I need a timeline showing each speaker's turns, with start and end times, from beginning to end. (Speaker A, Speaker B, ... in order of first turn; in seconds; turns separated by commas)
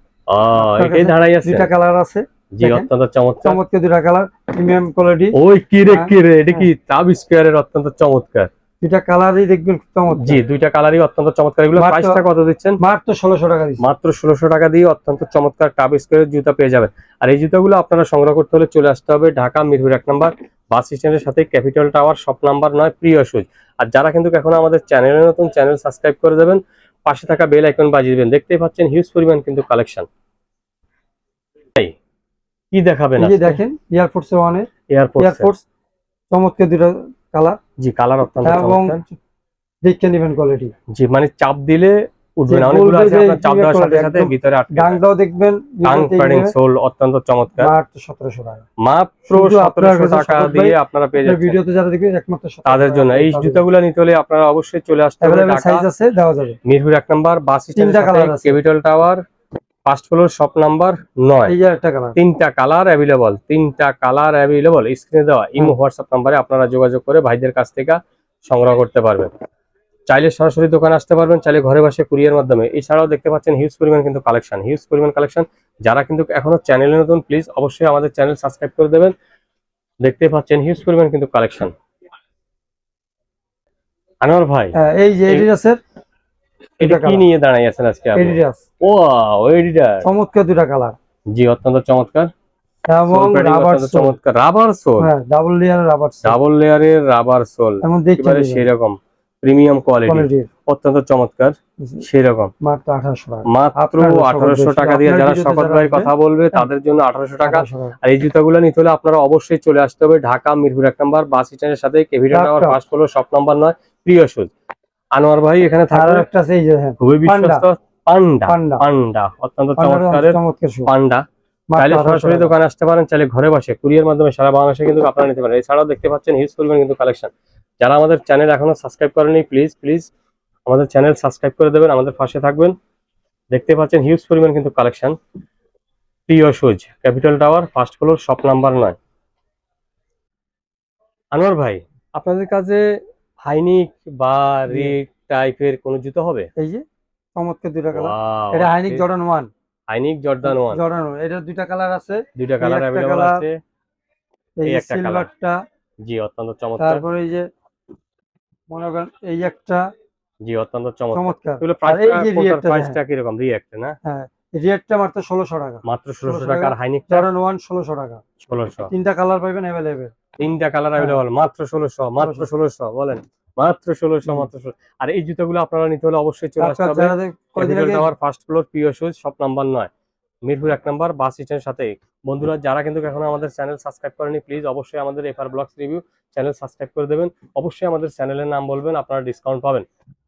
Speaker A: 0.3-1.7, Speaker B: 0.6-2.9, Speaker A: 2.5-3.6, Speaker B: 3.4-6.7, Speaker A: 5.3-8.5, Speaker B: 8.8-10.4, Speaker A: 10.2-12.8, Speaker B: 11.8-12.2, Speaker B: 12.8-13.8, Speaker A: 13.8-30.1, Speaker A: 32.7-33.6, Speaker B: 33.2-35.6, Speaker A: 34.9-35.5, Speaker B: 36.3-37.6, Speaker A: 37.8-39.0, Speaker B: 38.4-39.1, Speaker B: 39.8-40.7, Speaker A: 40.9-45.0, Speaker B: 42.5-46.5, Speaker A: 45.8-47.7, Speaker B: 47.6-48.6, Speaker A: 48.8-51.6, Speaker B: 49.3-53.6, Speaker A: 52.6-55.8, Speaker B: 55.2-56.6, Speaker A: 56.6-59.2, Speaker B: 57.8-58.6, Speaker A: 59.9-61.5, Speaker B: 61.5-62.1, Speaker A: 62.1-69.3, Speaker A: 70.1-79.1, Speaker A: 80.0-81.7, Speaker A: 84.2-84.7, Speaker B: 84.8-85.8, Speaker A: 86.8-90.1, Speaker B: 86.8-87.2, Speaker B: 88.2-88.6, Speaker B: 90.0-91.0, Speaker A: 91.3-92.3, Speaker B: 92.9-94.2, Speaker A: 93.0-95.1, Speaker B: 95.0-96.4, Speaker A: 96.2-102.5, Speaker B: 97.8-98.7, Speaker B: 100.0-100.5, Speaker B: 101.8-102.0, Speaker B: 102.6-106.7, Speaker A: 103.5-114.5, Speaker B: 107.4-107.9, Speaker B: 112.3-112.8, Speaker A: 115.1-116.2, Speaker B: 115.9-117.6, Speaker A: 117.0-121.2, Speaker B: 118.5-118.8, Speaker B: 119.8-120.9, Speaker B: 121.7-122.5, Speaker A: 121.8-130.1, Speaker A: 130.7-132.7, Speaker A: 133.5-135.2, Speaker A: 136.3-138.9, Speaker A: 141.3-142.8, Speaker A: 143.4-146.5, Speaker B: 144.7-144.9, Speaker B: 146.6-146.8, Speaker B: 147.3-149.5, Speaker A: 147.9-149.0, Speaker A: 149.9-150.8, Speaker B: 150.4-153.4, Speaker A: 152.3-153.6, Speaker B: 154.6-155.6, Speaker A: 154.7-155.3, Speaker A: 156.0-157.0, Speaker B: 156.8-157.4, Speaker B: 158.7-159.8, Speaker A: 160.4-163.9, Speaker B: 161.1-163.0, Speaker B: 164.0-168.2, Speaker A: 165.8-167.3, Speaker A: 168.4-168.9, Speaker B: 168.9-170.1, Speaker A: 170.4-179.9, Speaker B: 171.0-171.2, Speaker B: 172.2-172.5, Speaker B: 176.6-178.1, Speaker A: 180.4-189.8